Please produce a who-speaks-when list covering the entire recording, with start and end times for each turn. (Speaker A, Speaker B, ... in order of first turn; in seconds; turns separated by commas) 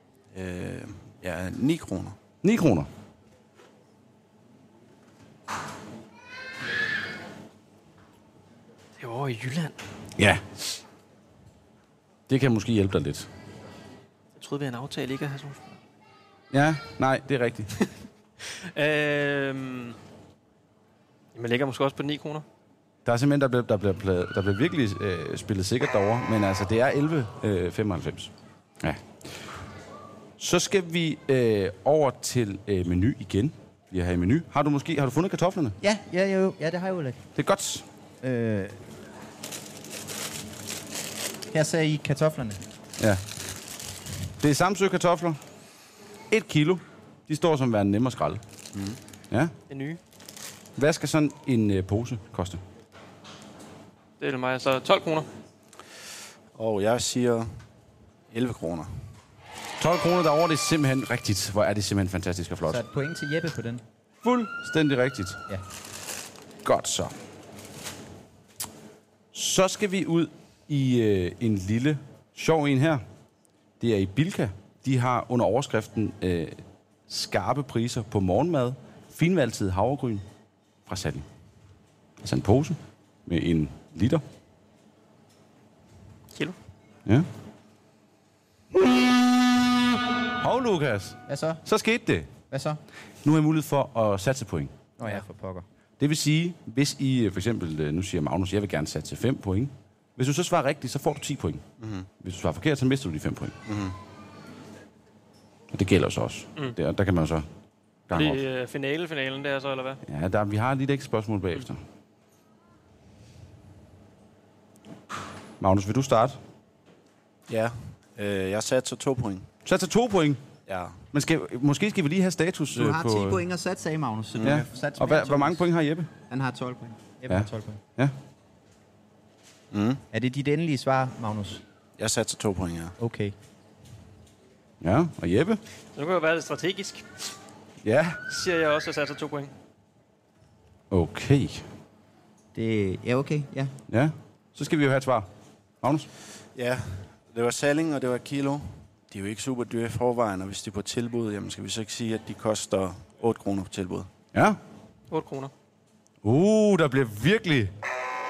Speaker A: 0.3-2.2, Speaker B: 2.4-2.9, Speaker C: 9.0-9.8, Speaker B: 10.2-10.4, Speaker B: 12.3-13.3, Speaker C: 14.3-15.8, Speaker B: 16.5-17.7, Speaker C: 18.4-20.0, Speaker C: 21.3-22.4, Speaker B: 23.0-29.4, Speaker B: 30.4-35.8, Speaker D: 35.8-37.2, Speaker B: 37.4-37.9, Speaker D: 38.2-38.8, Speaker D: 41.5-42.6, Speaker B: 43.0-43.2, Speaker B: 44.4-45.4, Speaker B: 46.3-48.4, Speaker A: 48.7-49.0, Speaker C: 49.7-50.0, Speaker B: 50.8-52.6, Speaker C: 54.2-55.3, Speaker A: 56.5-57.5, Speaker A: 58.3-59.1, Speaker B: 59.8-62.8, Speaker D: 62.6-63.8, Speaker B: 64.2-65.4, Speaker B: 66.6-67.1, Speaker B: 69.3-73.0, Speaker B: 73.8-80.2, Speaker B: 80.8-81.2, Speaker B: 82.2-84.2, Speaker B: 90.4-92.3, Speaker D: 91.3-91.6, Speaker D: 92.5-92.8, Speaker B: 93.2-94.8, Speaker D: 95.0-95.7, Speaker B: 96.0-101.6, Speaker A: 101.8-102.1, Speaker B: 102.2-103.6, Speaker A: 103.7-104.0, Speaker B: 105.7-107.5, Speaker B: 108.1-108.4, Speaker C: 108.1-110.0, Speaker B: 110.0-111.8, Speaker B: 115.6-116.4, Speaker A: 117.5-119.5, Speaker B: 119.6-120.4, Speaker A: 120.7-121.0, Speaker B: 121.1-123.4, Speaker D: 122.7-125.7, Speaker A: 124.3-124.7, Speaker B: 124.4-126.1, Speaker D: 126.3-127.8, Speaker B: 127.3-128.1, Speaker A: 129.7-130.0, Speaker D: 130.1-131.6, Speaker A: 132.0-132.9, Speaker D: 133.0-133.3, Speaker B: 134.8-135.6, Speaker C: 135.9-137.3, Speaker B: 137.8-138.2, Speaker C: 138.3-139.5, Speaker B: 140.9-141.6, Speaker D: 142.5-143.7, Speaker B: 143.9-145.3, Speaker B: 145.8-146.1, Speaker A: 146.5-154.1, Speaker B: 154.3-154.6, Speaker C: 155.1-155.5, Speaker B: 156.2-157.7